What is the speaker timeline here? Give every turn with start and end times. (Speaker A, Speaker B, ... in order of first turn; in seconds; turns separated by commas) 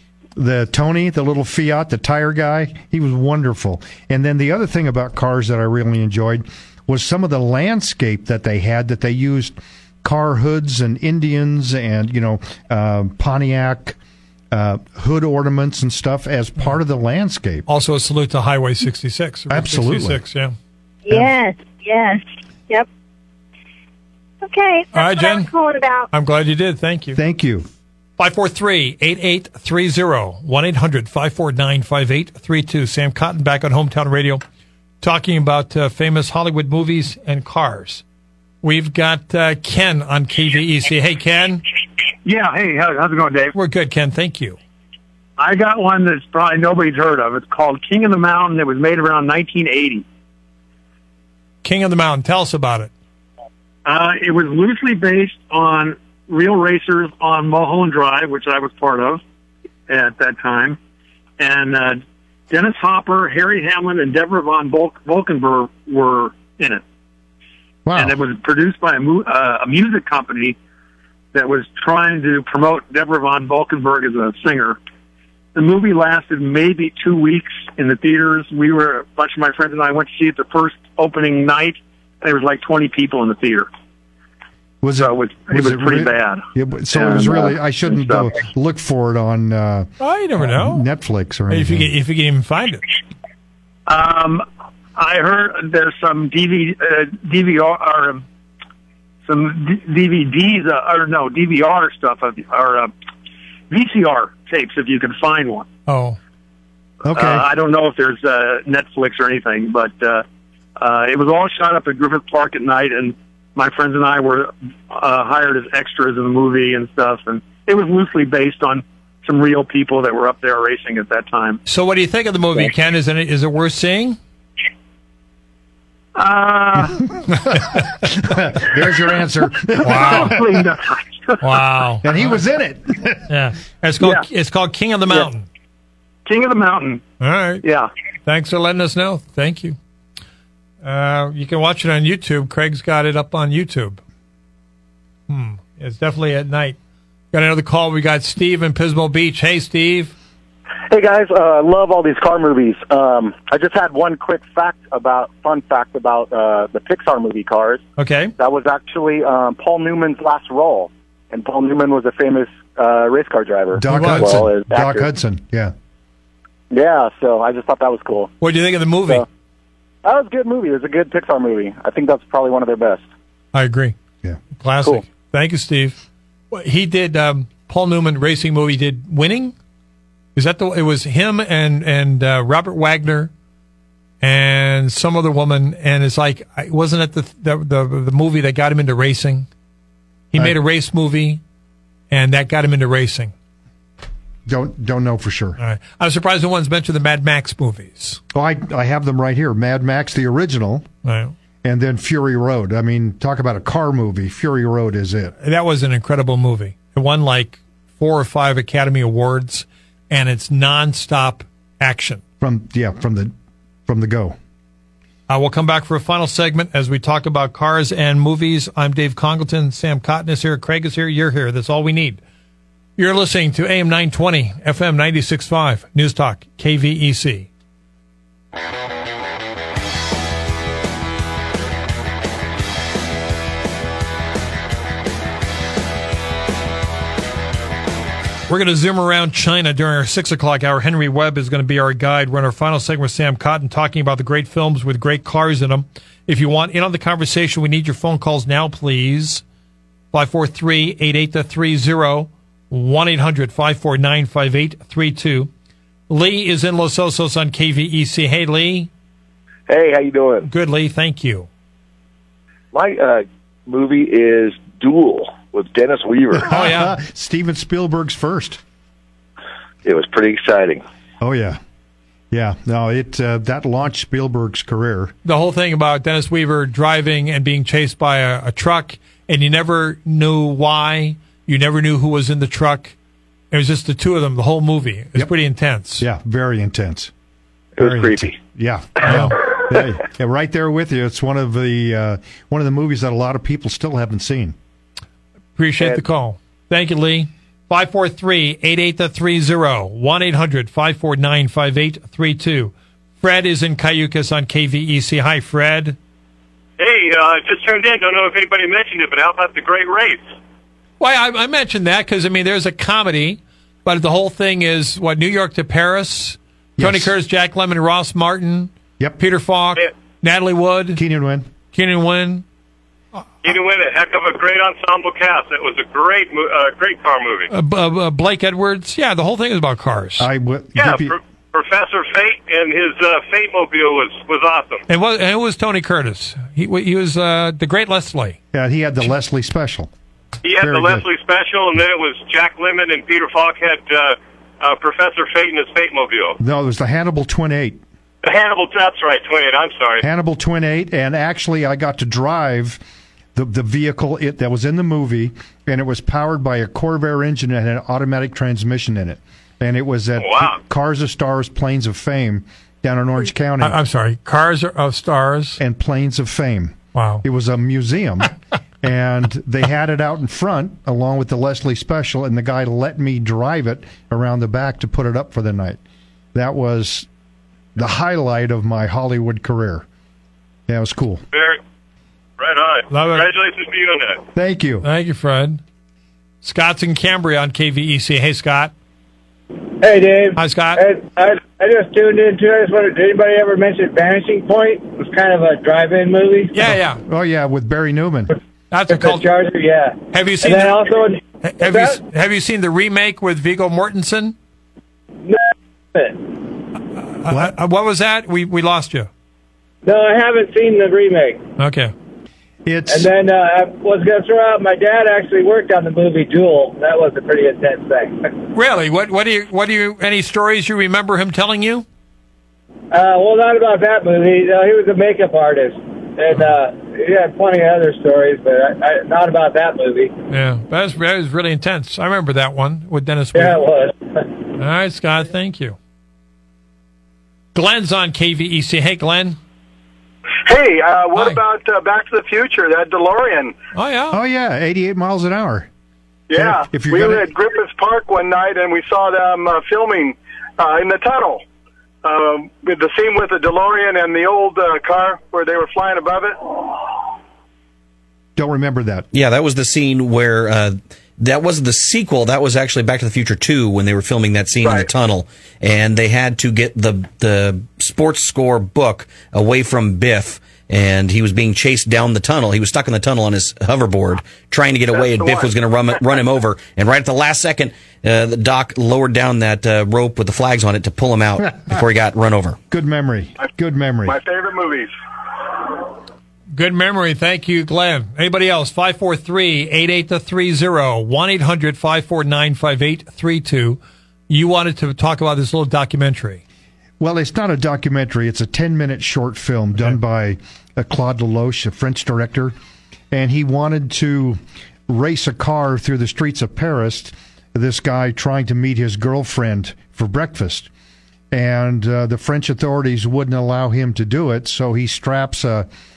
Speaker A: 0.3-14.0, Speaker A: 14.5-17.7, Speaker B: 17.7-20.6, Speaker A: 19.5-20.2, Speaker C: 21.1-22.9, Speaker C: 24.4-26.1, Speaker B: 24.9-25.5, Speaker B: 26.1-27.2, Speaker A: 27.1-27.7, Speaker B: 28.2-34.4, Speaker B: 35.0-38.0, Speaker B: 38.6-41.6, Speaker D: 42.2-43.5, Speaker B: 43.5-44.6, Speaker D: 45.4-50.0, Speaker B: 51.6-52.9, Speaker D: 53.8-59.2, Speaker D: 59.9-60.8, Speaker D: 61.4-66.8, Speaker A: 67.8-68.2, Speaker D: 67.9-70.6, Speaker D: 71.3-74.8, Speaker D: 75.5-83.7, Speaker A: 84.8-91.9, Speaker D: 85.0-86.5, Speaker B: 90.0-90.8, Speaker B: 91.5-92.8, Speaker D: 93.9-94.4, Speaker D: 95.0-98.2, Speaker D: 99.2-102.9, Speaker D: 103.7-105.7, Speaker B: 105.9-106.2, Speaker A: 107.0-107.4, Speaker D: 107.1-110.2, Speaker D: 110.8-121.6, Speaker B: 121.7-124.2, Speaker D: 126.1-127.0, Speaker A: 128.0-130.4, Speaker D: 129.7-131.6, Speaker B: 129.8-130.4, Speaker B: 131.4-132.3, Speaker A: 132.0-133.3, Speaker B: 133.3-135.5, Speaker D: 134.0-134.2, Speaker D: 136.2-137.0, Speaker B: 137.2-137.6, Speaker D: 137.6-137.9, Speaker B: 138.2-139.8, Speaker B: 140.8-144.0, Speaker B: 145.3-146.8, Speaker B: 147.3-150.1, Speaker E: 150.9-157.8, Speaker B: 158.0-158.3, Speaker E: 158.4-165.1, Speaker A: 163.7-165.7, Speaker B: 163.9-164.4, Speaker E: 166.7-168.3, Speaker B: 168.4-169.2, Speaker E: 170.0-173.0, Speaker B: 173.5-173.9, Speaker B: 174.6-179.5, Speaker B: 180.3-183.3, Speaker B: 184.2-189.5, Speaker B: 190.3-191.4, Speaker B: 192.1-193.3, Speaker A: 194.4-195.6, Speaker B: 195.6-198.2, Speaker A: 198.3-200.8, Speaker B: 201.0-201.3, Speaker A: 201.6-205.3, Speaker B: 205.4-212.2, Speaker A: 212.4-213.3, Speaker A: 213.8-214.3, Speaker B: 215.3-222.2, Speaker B: 223.0-227.5, Speaker B: 238.5-249.4, Speaker B: 250.1-255.5, Speaker B: 256.1-258.9, Speaker F: 259.7-260.5, Speaker B: 260.5-261.5, Speaker F: 262.7-266.5, Speaker A: 266.4-268.6, Speaker B: 266.5-266.9, Speaker F: 269.8-270.8, Speaker A: 271.2-271.6, Speaker A: 272.3-275.1, Speaker B: 275.2-282.9, Speaker B: 283.5-286.0, Speaker A: 286.0-287.1, Speaker F: 287.8-288.4, Speaker A: 287.8-294.6, Speaker B: 289.0-289.4, Speaker B: 295.6-306.0, Speaker G: 306.8-310.3, Speaker B: 311.0-321.0, Speaker A: 316.8-317.1, Speaker A: 320.9-321.5, Speaker B: 321.7-322.4, Speaker G: 323.4-327.5, Speaker B: 327.5-330.3, Speaker A: 330.2-331.1, Speaker G: 330.7-334.8, Speaker B: 334.9-338.4, Speaker A: 338.5-339.9, Speaker G: 340.4-346.4, Speaker A: 340.6-341.1, Speaker A: 346.4-347.8, Speaker G: 348.2-350.0, Speaker A: 350.0-352.8, Speaker A: 353.3-363.8, Speaker G: 360.2-360.6, Speaker B: 363.6-365.6, Speaker A: 365.6-368.3, Speaker B: 366.9-367.2, Speaker A: 368.8-375.8, Speaker A: 376.3-377.1, Speaker A: 377.8-379.9, Speaker A: 380.7-381.2, Speaker G: 381.3-381.6, Speaker G: 382.4-384.2, Speaker B: 382.9-383.3, Speaker A: 384.3-384.9, Speaker B: 384.8-385.6, Speaker B: 386.4-388.7, Speaker H: 389.8-396.7, Speaker B: 390.4-390.8, Speaker B: 396.5-397.0, Speaker A: 396.7-398.3, Speaker B: 398.7-399.3, Speaker H: 398.9-402.0, Speaker B: 400.1-400.8, Speaker B: 401.4-404.3, Speaker H: 405.9-406.2, Speaker B: 407.0-409.1, Speaker A: 407.3-407.6, Speaker H: 409.8-411.4, Speaker B: 411.6-411.9, Speaker A: 412.6-413.1, Speaker H: 412.9-418.4, Speaker B: 418.5-421.9, Speaker H: 422.9-430.1, Speaker B: 430.3-433.6, Speaker H: 433.3-434.3, Speaker B: 434.6-435.8, Speaker B: 437.5-439.4, Speaker I: 440.5-443.5, Speaker B: 443.7-444.2, Speaker A: 444.1-445.7, Speaker I: 446.3-451.4, Speaker A: 446.3-447.3, Speaker I: 452.0-456.3, Speaker A: 458.4-459.1, Speaker J: 459.1-482.6, Speaker A: 482.7-484.2, Speaker I: 484.1-484.8, Speaker B: 486.5-496.4, Speaker A: 497.0-502.5, Speaker A: 503.1-510.7, Speaker A: 511.3-515.7